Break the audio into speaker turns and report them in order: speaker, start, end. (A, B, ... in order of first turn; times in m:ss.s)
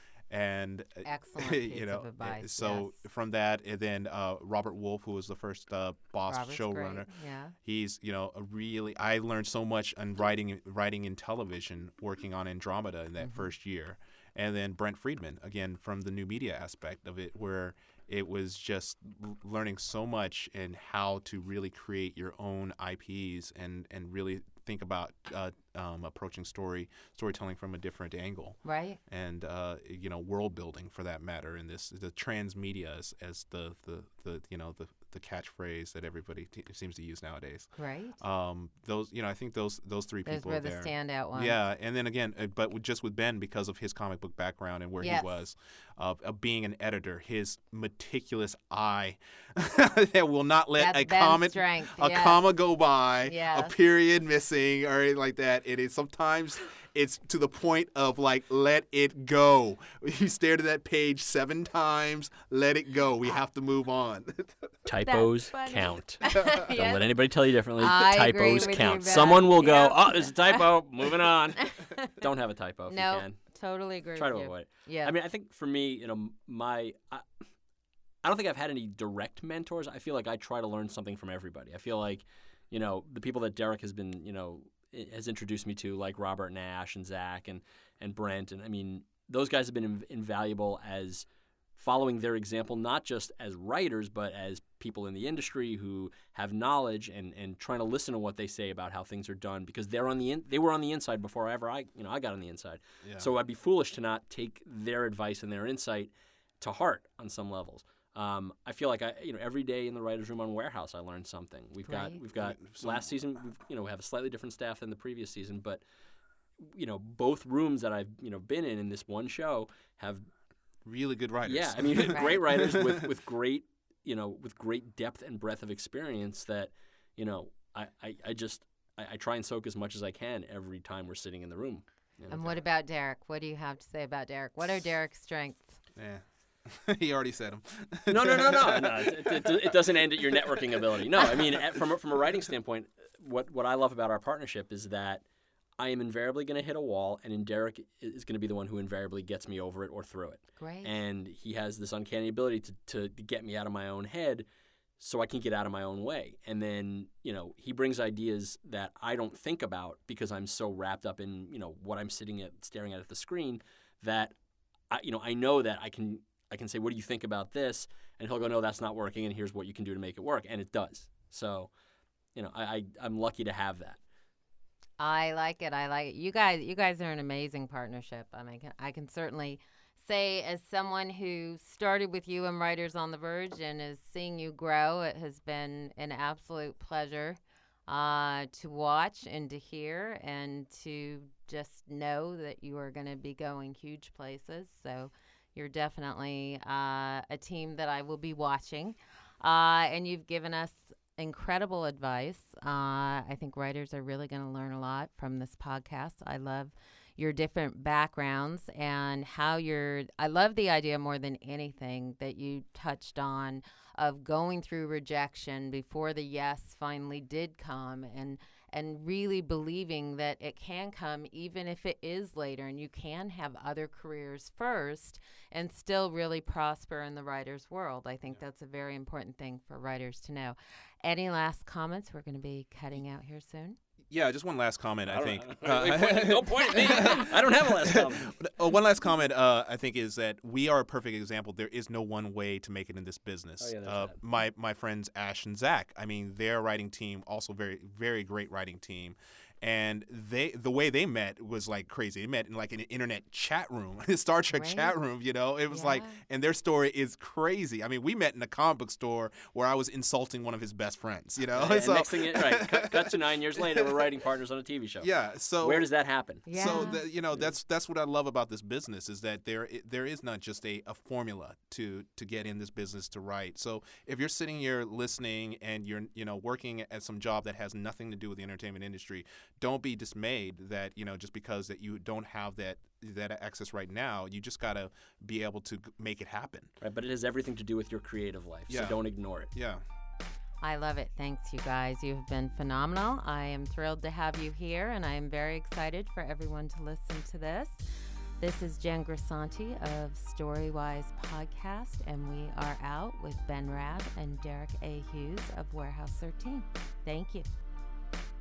0:00.3-0:07.1 A
0:01.0-0:02.9 B
0:06.3-0:07.5 B
0:07.6-1:04.7 A
0:13.2-0:13.5 B
0:28.6-0:29.0 B
0:37.8-0:38.2 B
0:40.2-0:41.6 B
0:45.0-0:45.3 B
0:50.8-0:52.4 B
0:53.2-0:53.7 B
1:04.8-1:13.4 C
1:05.0-1:07.0 B
1:07.8-1:10.7 B
1:11.6-1:12.2 B
1:12.9-1:15.1 B
1:14.2-1:17.3 C
1:18.2-1:31.2 C
1:31.8-1:55.8 C
1:43.0-1:43.3 A
1:51.9-1:52.2 B
1:52.4-1:53.1 A
1:56.6-2:00.2 C
2:00.8-2:03.0 A
2:01.4-2:12.5 C
2:02.1-2:02.4 B
2:12.3-2:15.8 B
2:15.9-2:19.8 A
2:18.1-2:25.2 C
2:20.3-2:21.0 A
2:25.8-2:34.4 C
2:30.6-2:30.9 B
2:35.0-2:44.3 C
2:44.9-2:51.7 C
2:52.3-2:54.0 C
2:55.0-3:53.8 B
3:54.1-4:24.0 A
3:55.1-3:58.4 C
4:03.6-4:04.2 C
4:14.5-4:14.9 B
4:15.7-4:16.2 B
4:21.5-4:27.4 C
4:25.0-4:25.9 A
4:26.4-4:27.0 B
4:26.5-4:46.7 A
4:46.8-4:49.5 C
4:48.7-4:49.0 A
4:49.5-4:49.8 A
4:50.6-5:07.5 B